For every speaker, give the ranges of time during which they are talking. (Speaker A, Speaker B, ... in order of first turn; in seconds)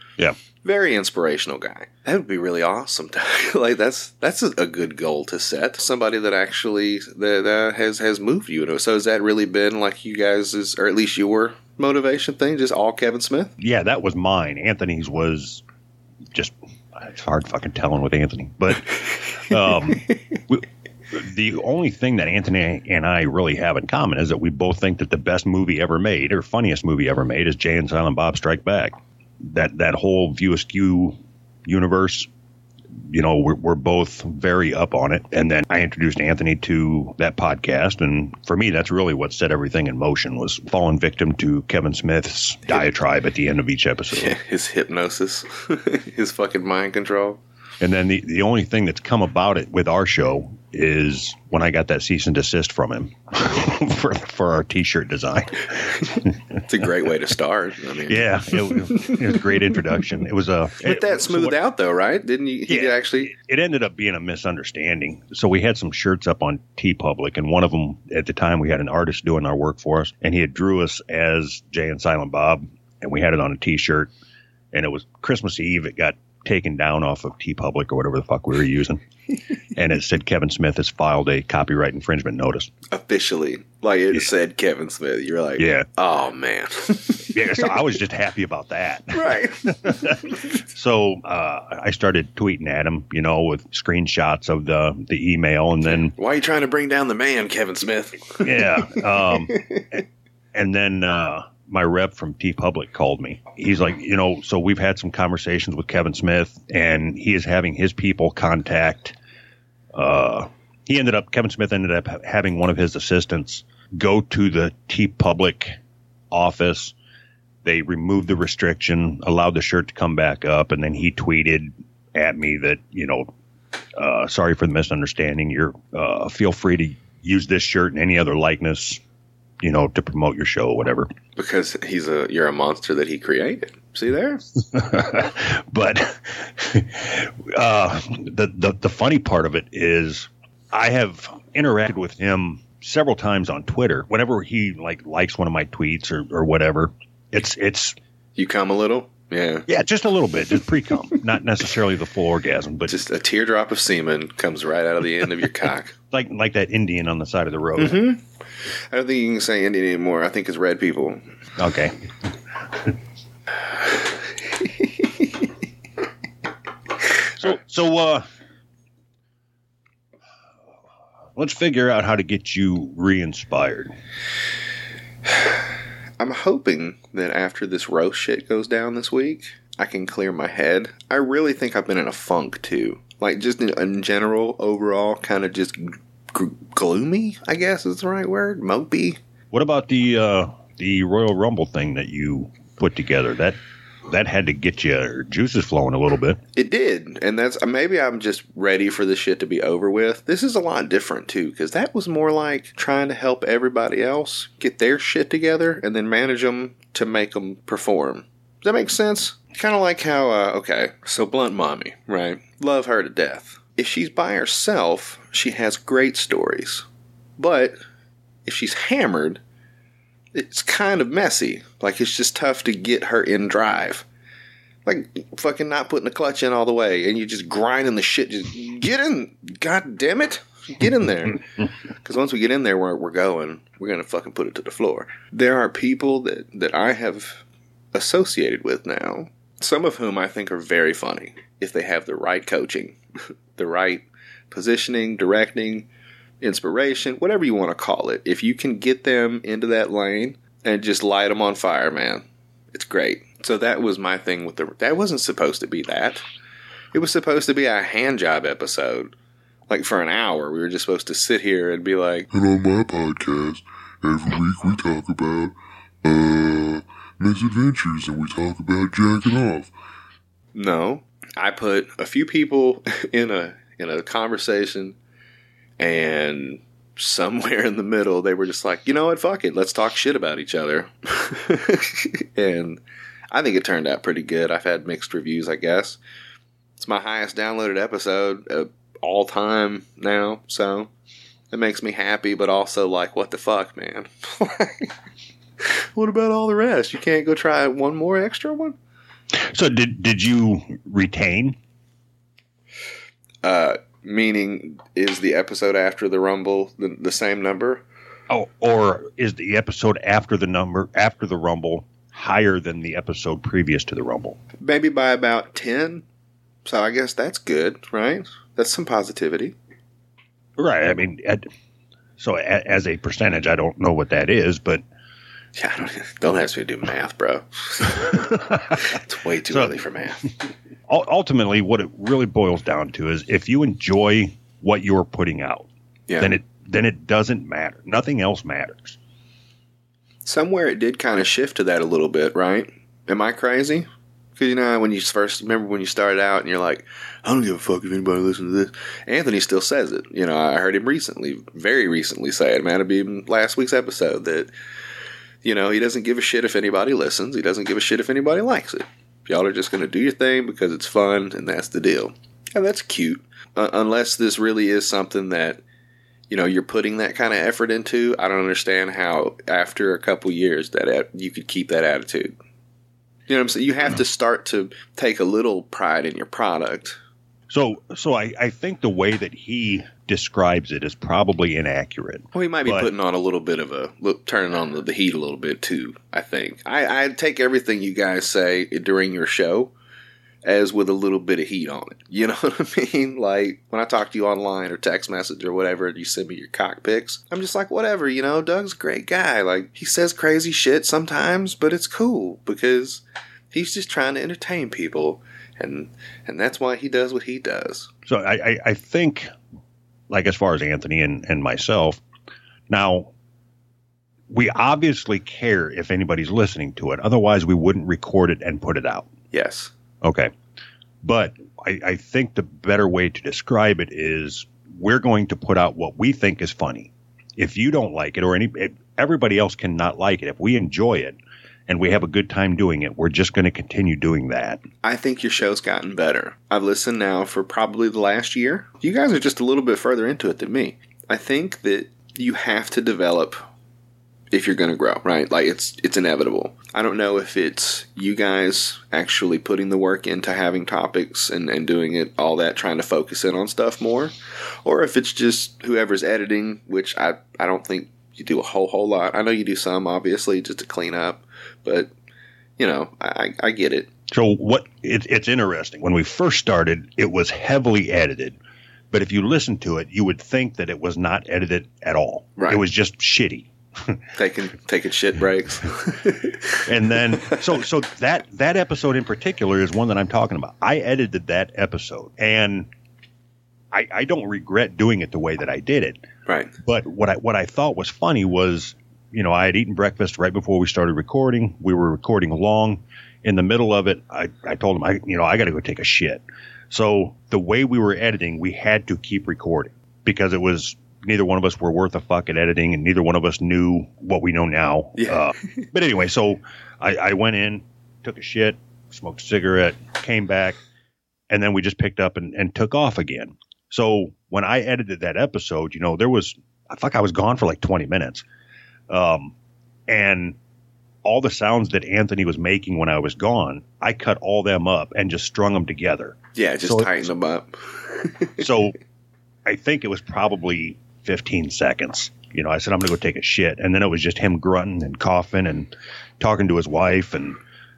Speaker A: 0.6-13.5, 44.1-47.4, 56.6-59.4, 60.8-63.3, 82.9-87.7, 89.1-90.4, 95.8-99.8, 131.3-134.4, 148.3-149.7, 152.9-155.9, 157.8-158.2, 158.9-161.2, 164.6-165.2, 176.2-189.2, 196.6-216.8, 217.4-217.8, 218.4-219.4, 220.3-224.1, 224.8-243.0, 243.6-245.9, 246.4-256.2, 256.9-259.1, 259.7-262.3, 270.5-274.9, 275.8-286.0, 286.8-290.9, 291.5-294.9, 295.6-298.8, 303.4-307.8, 314.6-316.0, 316.6-319.5, 325.5-330.2, 336.1-336.4, 340.2-354.5, 355.4-365.6, 366.3-372.4, 373.3-377.0, 382.3-389.7, 390.4-407.9, 419.3-419.7, 434.8-443.4, 444.3-461.9, 462.6-463.9, 472.4-472.6, 474.1-476.6, 486.2-486.5, 504.9-505.2, 526.4-528.5
Speaker B: 13.6-15.6, 16.3-32.3, 33.1-44.4, 47.8-56.4, 58.0-61.6, 62.7-74.1, 74.7-79.0, 79.7-82.7, 85.6-85.9, 87.3-96.1, 98.4-109.1, 109.9-115.8, 116.3-116.9, 117.6-123.3, 124.0-129.0, 129.6-131.1, 134.6-148.0, 149.7-153.0, 156.1-158.0, 161.6-161.9, 167.4-168.2, 171.3-173.9, 189.5-193.6, 194.1-196.4, 299.4-301.6, 308.3-314.4, 320.6-321.5, 322.2-324.8, 328.1-328.9, 330.9-339.0, 377.5-382.9, 408.1-409.3, 410.1-412.0, 412.7-413.1, 414.3-419.1, 420.0-420.3, 421.0-434.6, 464.1-468.4, 468.9-474.0, 476.6-482.7, 483.7-486.0, 486.6-510.6, 511.3-518.2, 518.9-519.3, 519.9-520.4, 521.0-527.1, 528.4-528.8, 529.5-537.4
Speaker C: 262.3-269.7